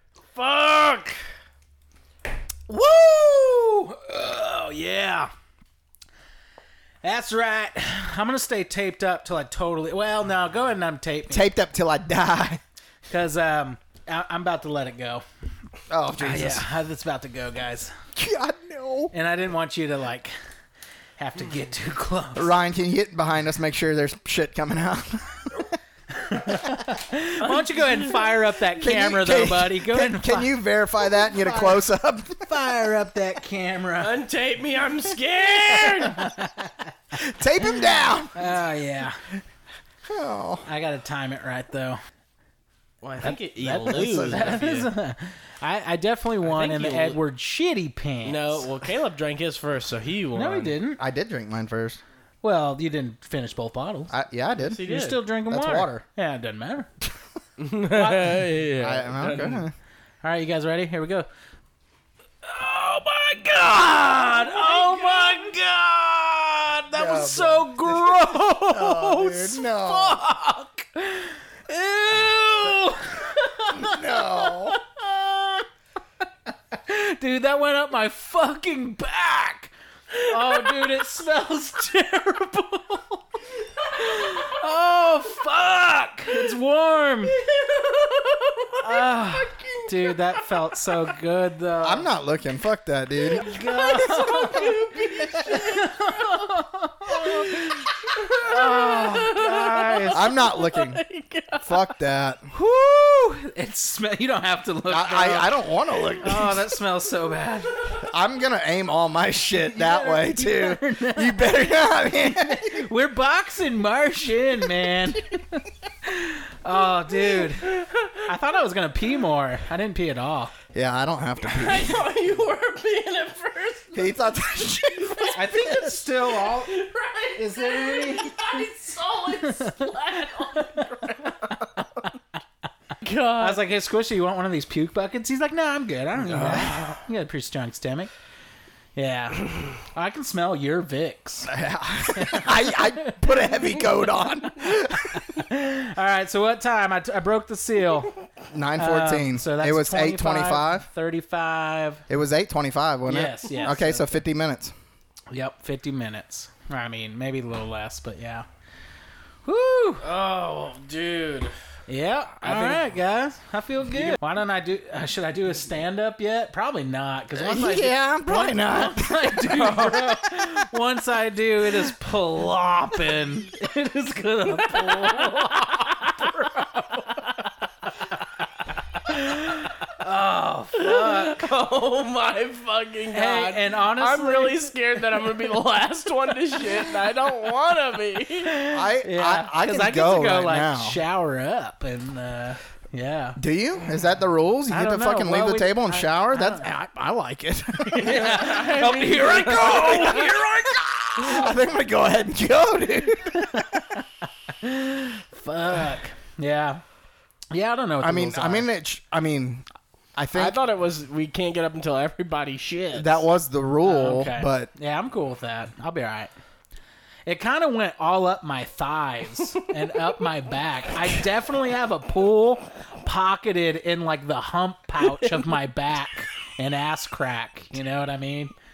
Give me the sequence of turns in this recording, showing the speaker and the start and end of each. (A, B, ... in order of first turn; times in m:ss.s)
0:00.3-0:01.2 A
0:02.7-0:05.3 B
0:07.0-0:11.5 B
0:11.3-0:12.6 C
0:13.1-0:15.2 B
0:15.9-0:16.7 C
0:16.2-0:17.9 B
0:18.1-0:19.1 C
0:19.1-0:20.3 B
0:21.2-0:22.5 B
0:22.4-0:25.7 C
0:26.1-0:30.5 B
0:27.4-0:28.2 A
0:28.8-0:32.4 C
0:31.2-0:31.8 B
0:32.4-0:34.1 B
0:34.0-0:36.3 A
0:36.1-0:36.9 B
0:37.1-0:38.4 C
0:38.3-0:39.2 B
0:40.1-0:40.6 C
0:40.6-0:42.0 B
0:43.0-0:44.9 A
0:43.2-0:48.6 B
0:43.8-0:44.5 C
0:46.4-0:47.2 A
0:48.2-0:50.8 A
0:50.3-0:51.0 B
0:51.0-0:52.0 C
0:52.4-0:54.1 B
0:54.1-0:54.8 C
0:54.6-0:55.2 A
0:54.8-0:56.9 B
0:55.5-0:56.0 C
0:57.6-0:59.6 A
0:57.9-0:58.4 B
0:58.8-0:59.7 C
1:00.2-1:01.3 B
1:02.4-1:15.6 B
1:04.3-1:05.5 A
1:06.9-1:10.2 C
1:13.7-1:14.8 C
1:16.7-1:23.2 B
1:20.5-1:20.8 A
1:23.9-1:27.4 B
1:27.3-1:30.9 A
1:28.8-1:32.1 B
1:31.8-1:33.4 C
1:33.4-1:36.5 A
1:33.4-1:34.7 B
1:35.4-1:40.2 B
1:37.1-1:41.9 A
1:40.1-1:41.0 C
1:41.6-1:42.5 C
1:42.5-1:45.6 B
1:44.9-1:46.6 C
1:46.2-1:47.8 B
1:48.0-1:52.9 C
1:49.7-2:00.5 B
1:57.6-1:58.2 A
2:00.7-2:02.1 C
2:01.4-2:04.2 A
2:03.9-2:05.6 C
2:05.0-2:11.4 A
2:05.3-2:06.8 B
2:07.4-2:08.6 B
2:09.4-2:09.9 B
2:10.5-2:11.6 B
2:13.0-2:13.6 A
2:13.4-2:18.1 B
2:16.3-2:16.6 C
2:16.3-2:16.8 A
2:19.0-2:21.5 B
2:21.5-2:25.3 C
2:22.1-2:23.2 B
2:25.1-2:28.1 B
2:28.5-2:30.8 C
2:28.8-2:32.0 B
2:32.1-2:34.7 C
2:33.1-2:34.2 B
2:35.3-2:38.5 B
2:39.4-2:40.0 B
2:40.0-2:41.5 A
2:41.9-2:57.2 B
2:47.3-2:49.8 C
2:49.6-2:50.1 A
2:54.5-2:56.4 A
2:59.1-3:01.4 B
3:00.8-3:08.5 A
3:03.1-3:04.7 B
3:08.4-3:13.4 B
3:08.7-3:11.0 C
3:13.4-3:18.2 C
3:14.7-3:16.6 B
3:17.9-3:21.4 B
3:18.0-3:20.2 A
3:19.3-3:24.0 C
3:24.6-3:26.8 B
3:27.5-3:28.7 B
3:28.0-3:29.6 C
3:30.2-3:30.6 C
3:30.3-3:33.2 A
3:32.9-3:34.7 C
3:33.8-3:36.3 B
3:37.2-3:48.5 B
3:45.0-3:45.4 A